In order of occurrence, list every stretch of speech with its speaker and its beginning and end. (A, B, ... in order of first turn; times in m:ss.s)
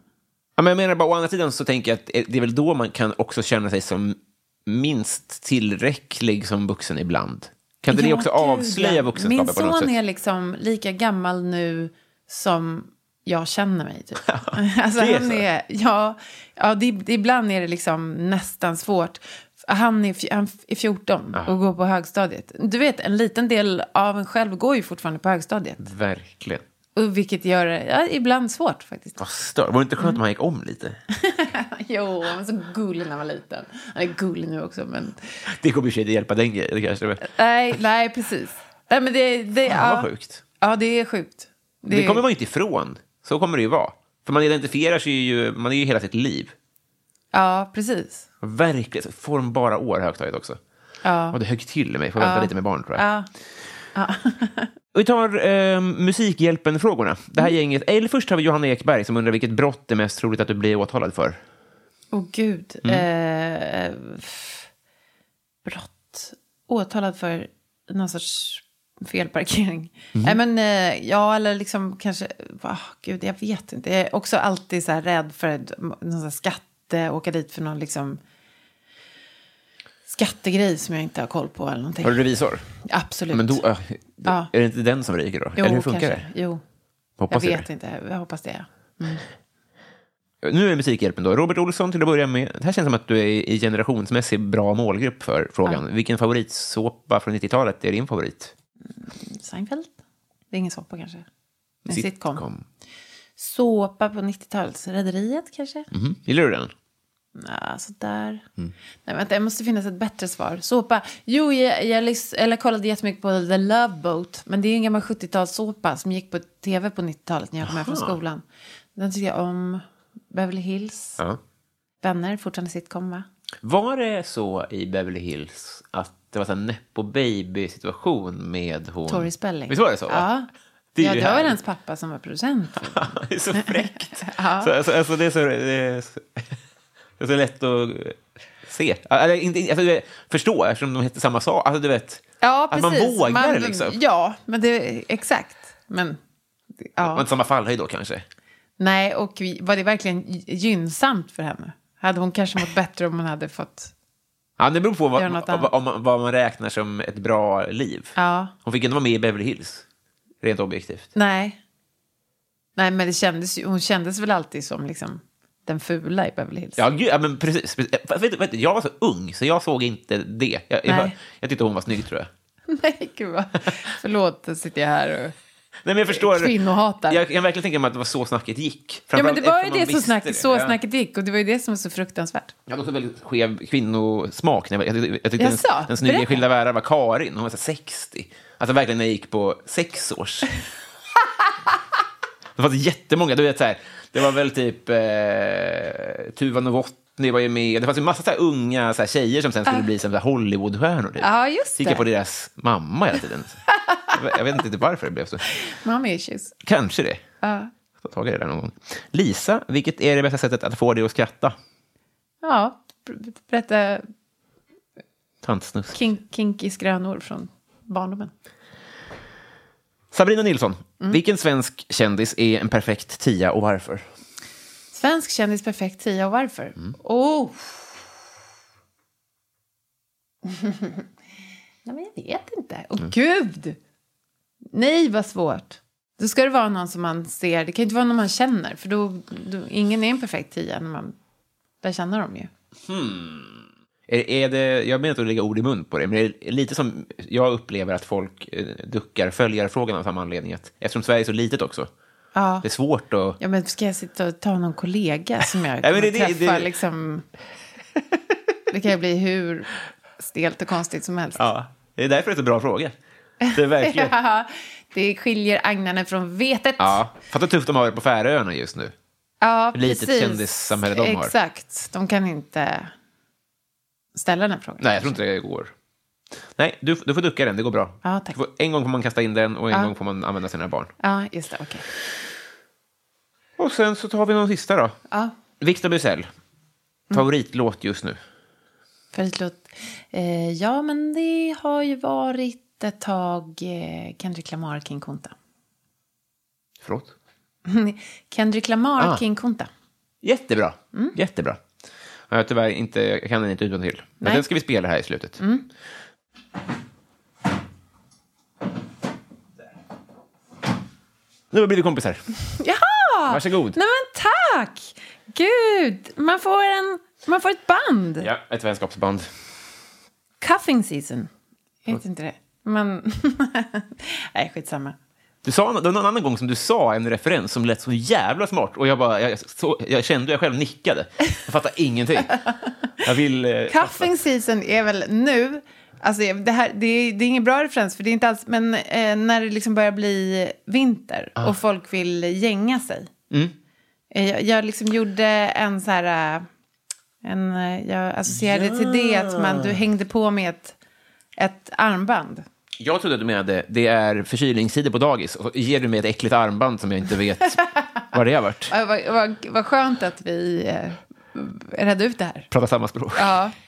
0:00.6-0:09.9 A
0:07.9-0:25.8 B
0:14.2-0:15.4 A
0:25.8-0:26.6 A
0:27.0-0:29.2 B
0:29.2-0:31.0 A
0:31.2-0:35.2 B
0:35.5-0:37.3 A
0:37.2-0:40.1 B
0:39.7-0:40.4 A
0:40.6-0:42.2 B
0:41.9-0:46.5 A
0:47.3-0:48.2 B
0:48.4-0:50.6 A
0:51.0-0:51.4 B
0:51.3-0:53.0 A
0:52.2-0:53.3 B
0:53.9-0:54.7 B
0:54.9-1:01.4 A
1:02.1-1:04.7 B
1:05.6-1:18.2 B
1:20.0-1:22.2 B
1:22.0-1:22.6 A
1:22.8-1:23.6 B
1:23.3-1:26.3 A
1:24.2-1:24.5 B
1:25.6-1:26.6 B
1:27.2-1:27.6 A
1:27.3-1:29.2 B
1:30.4-1:38.5 A
1:39.0-1:39.9 B
1:40.5-1:41.2 B
1:41.9-1:42.4 B
1:41.9-1:42.6 A
1:43.4-1:45.9 B
1:45.9-1:46.7 A
1:47.3-1:48.4 B
1:49.0-1:58.4 B
1:57.6-1:58.2 A
1:59.0-2:01.2 B
2:02.0-2:03.2 B
2:03.6-2:10.3 A
2:09.1-2:10.5 B
2:10.9-2:11.6 A
2:11.0-2:14.7 B
2:12.9-2:16.4 A
2:17.2-2:23.9 A
2:22.4-2:26.2 B
2:26.8-2:27.2 B
2:27.0-2:28.2 A
2:28.8-2:33.9 B
2:34.6-2:39.8 A
2:35.2-2:35.7 B
2:38.2-2:38.5 B
2:40.4-2:41.1 A
2:41.1-2:41.6 B
2:42.8-2:46.8 B
2:46.8-2:52.3 A
2:50.8-2:51.1 B
2:52.7-2:55.3 B
2:55.8-2:56.5 A
2:56.1-2:57.2 B
2:57.1-3:00.8 A
2:59.1-3:02.5 B
3:02.7-3:10.6 A
3:05.4-3:06.4 B
3:12.6-3:23.6 A
3:21.2-3:22.0 B
3:23.7-3:24.1 B
3:24.1-3:25.5 A
3:25.6-3:26.5 B
3:26.6-3:27.2 A
3:27.4-3:27.7 B
3:28.0-3:31.6 A
3:32.4-3:34.0 B
3:35.4-3:36.0 A
3:35.9-3:38.3 B
3:40.1-3:44.0 A
3:44.9-3:48.0 B
3:50.4-3:51.1 B
3:51.8-3:53.8 B
3:54.7-4:01.2 B
4:01.8-4:02.5 B
4:02.9-4:11.9 A
4:12.3-4:12.6 B
4:12.6-4:13.4 A
4:13.4-4:17.2 B
4:15.8-4:16.7 A
4:18.7-4:19.7 B
4:20.2-4:21.4 B
4:21.4-4:22.9 A
4:23.4-4:27.0 B
4:23.5-4:24.1 A
4:26.8-4:28.9 A
4:29.4-4:32.9 B
4:29.7-4:31.3 A
4:34.1-4:35.2 B
4:34.8-4:35.7 A
4:36.6-4:40.9 A
4:38.0-4:38.4 B
4:41.0-4:41.8 B
4:43.6-4:45.0 A
4:45.6-4:46.3 A
4:47.1-4:48.2 A
4:49.1-4:55.3 B
4:56.8-4:57.1 A
4:57.6-4:59.7 B
5:00.2-5:01.6 A
5:02.3-5:05.4 A
5:05.4-5:05.6 B
5:11.5-5:12.2 A
5:12.5-5:18.3 B
5:13.3-5:13.8 A
5:18.2-5:19.3 A
5:20.4-5:21.3 B
5:21.8-5:25.0 B
5:25.4-5:32.4 A
5:33.0-5:34.1 A
5:33.7-5:43.1 B
5:44.1-5:46.4 B
5:47.2-5:50.8 B
5:48.3-5:49.8 A
5:51.4-5:52.4 B
5:52.8-5:58.7 A
5:58.7-6:02.5 B
6:02.5-6:03.4 A
6:03.2-6:03.5 B